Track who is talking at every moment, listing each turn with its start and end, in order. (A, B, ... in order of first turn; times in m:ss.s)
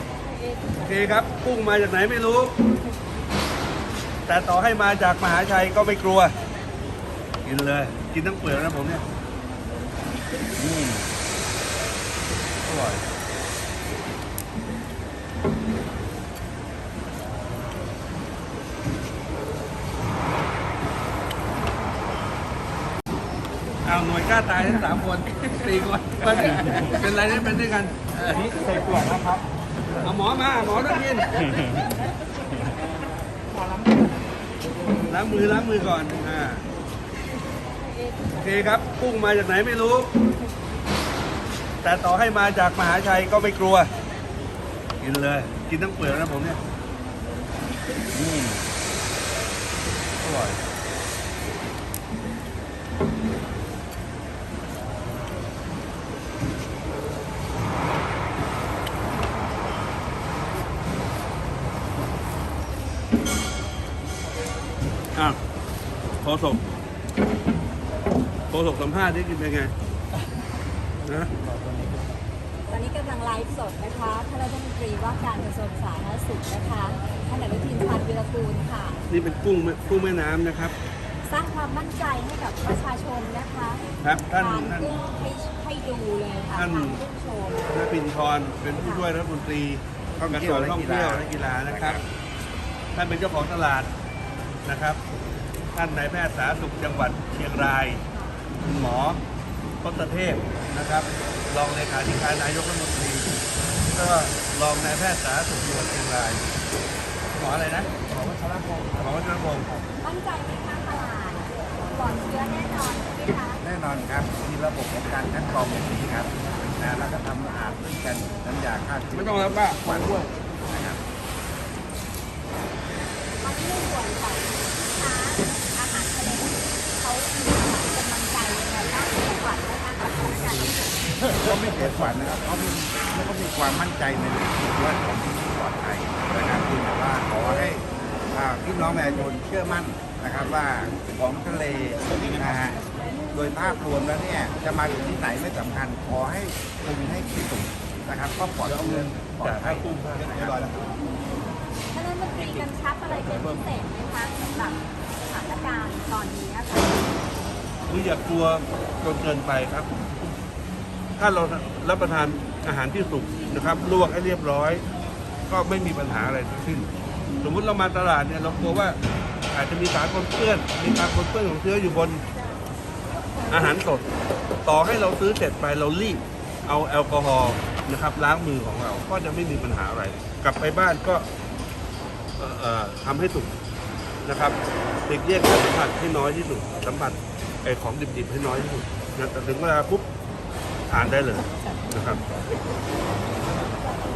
0:00.8-0:02.6 A
0:04.3-0:06.3 A
0:07.4-0:09.0 A
0:10.6-0:11.0 A
0:12.6-0:13.0 A
0:23.8-0:29.4 A
0:30.0-0:31.4 A
0:35.1-0:36.6 A
0:38.3-0:40.1 A
0:41.8-0:43.9 A
0:45.0-0:46.6 A
0:48.1-0:48.6 A
0:50.2-0:50.6 A
1:06.2-1:06.6 A
1:08.5-1:09.7 A
1:11.0-1:11.3 A
1:12.7-1:19.0 B
1:19.1-1:20.8 A
1:21.2-1:27.6 B
1:24.0-1:25.0 A
1:26.5-1:27.0 A
1:27.7-1:32.0 A
1:28.8-1:29.1 B
1:30.2-1:32.0 C
1:32.9-1:33.9 A
1:34.6-1:35.0 A
1:35.7-1:38.0 A
1:38.1-1:38.4 B
1:38.6-1:39.2 A
1:39.8-1:43.3 A
1:43.9-1:46.5 A
1:47.3-1:48.1 A
1:48.8-1:49.7 A
1:50.0-1:53.6 B
1:53.6-2:01.0 C
1:59.1-2:00.3 A
2:03.4-2:11.0 B
2:11.4-2:22.8 C
2:23.3-2:30.9 C
2:28.6-2:30.7 A
2:31.9-2:37.2 B
2:37.9-2:39.9 A
2:41.2-2:44.8 A
2:45.5-2:46.9 A
2:47.4-2:49.0 A
2:49.5-2:52.2 A
2:53.5-2:54.1 A
2:54.6-3:01.3 A
3:02.4-3:03.6 A
3:04.2-3:10.1 A
3:10.9-3:12.2 A